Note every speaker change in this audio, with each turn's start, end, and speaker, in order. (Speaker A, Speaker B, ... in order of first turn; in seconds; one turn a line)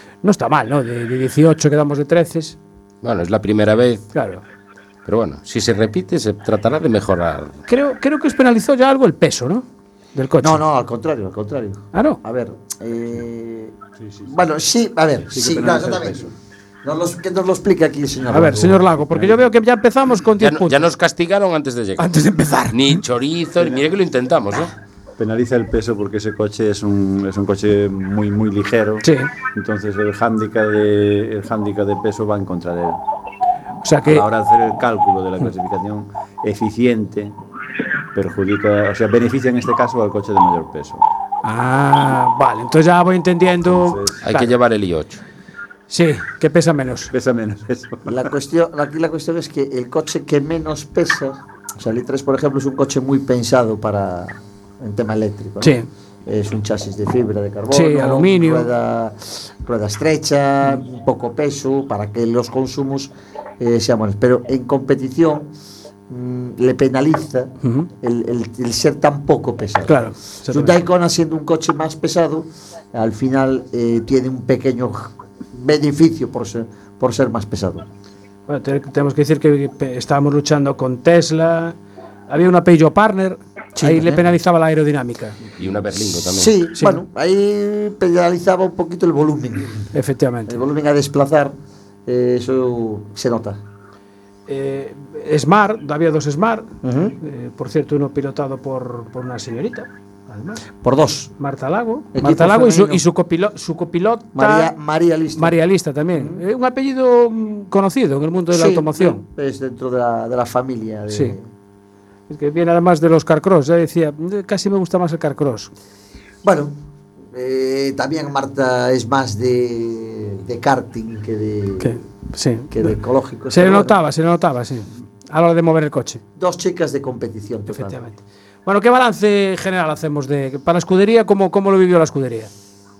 Speaker A: 0.2-2.6
Speaker B: 3.0-4.1
Speaker A: 4.1-4.4
Speaker B: 5.0-7.6
Speaker A: 7.7-10.6
Speaker C: 10.4-16.3
Speaker A: 11.9-12.2
Speaker D: 14.0-14.3
Speaker D: 15.3-16.3
Speaker C: 16.8-18.9
Speaker A: 18.3-20.9
Speaker D: 19.0-19.4
Speaker B: 20.4-22.1
Speaker A: 22.0-23.0
Speaker B: 22.7-24.7
Speaker D: 23.6-23.8
Speaker D: 25.2-33.0
Speaker A: 29.0-29.3
Speaker A: 33.8-34.3
Speaker D: 34.0-37.3
Speaker D: 38.1-41.0
Speaker A: 41.4-44.5
Speaker D: 43.7-44.2
Speaker B: 44.2-45.2
Speaker A: 45.9-47.1
Speaker D: 47.1-48.2
Speaker C: 48.0-65.5
Speaker A: 55.6-55.9
Speaker A: 57.7-58.7
Speaker C: 66.1-77.8
Speaker A: 67.6-67.9
Speaker A: 69.8-70.8
Speaker A: 78.5-81.8
Speaker A: 82.3-85.4
Speaker C: 83.8-84.2
Speaker B: 85.6-86.5
Speaker C: 86.2-89.8
Speaker A: 86.7-87.0
Speaker A: 89.9-90.6
Speaker C: 90.5-91.5
Speaker C: 92.0-93.6
Speaker A: 94.5-100.6
Speaker C: 96.8-97.2
Speaker C: 100.8-101.3
Speaker A: 101.4-104.7
Speaker C: 102.1-103.0
Speaker C: 104.3-105.6
Speaker A: 105.3-109.2
Speaker C: 106.1-106.4
Speaker C: 108.5-111.5
Speaker A: 111.1-111.3
Speaker A: 112.3-115.7
Speaker C: 116.4-116.8
Speaker C: 117.3-122.0
Speaker A: 121.8-122.9
Speaker C: 122.7-124.0
Speaker A: 123.5-126.2
Speaker C: 126.3-128.0
Speaker A: 127.7-132.5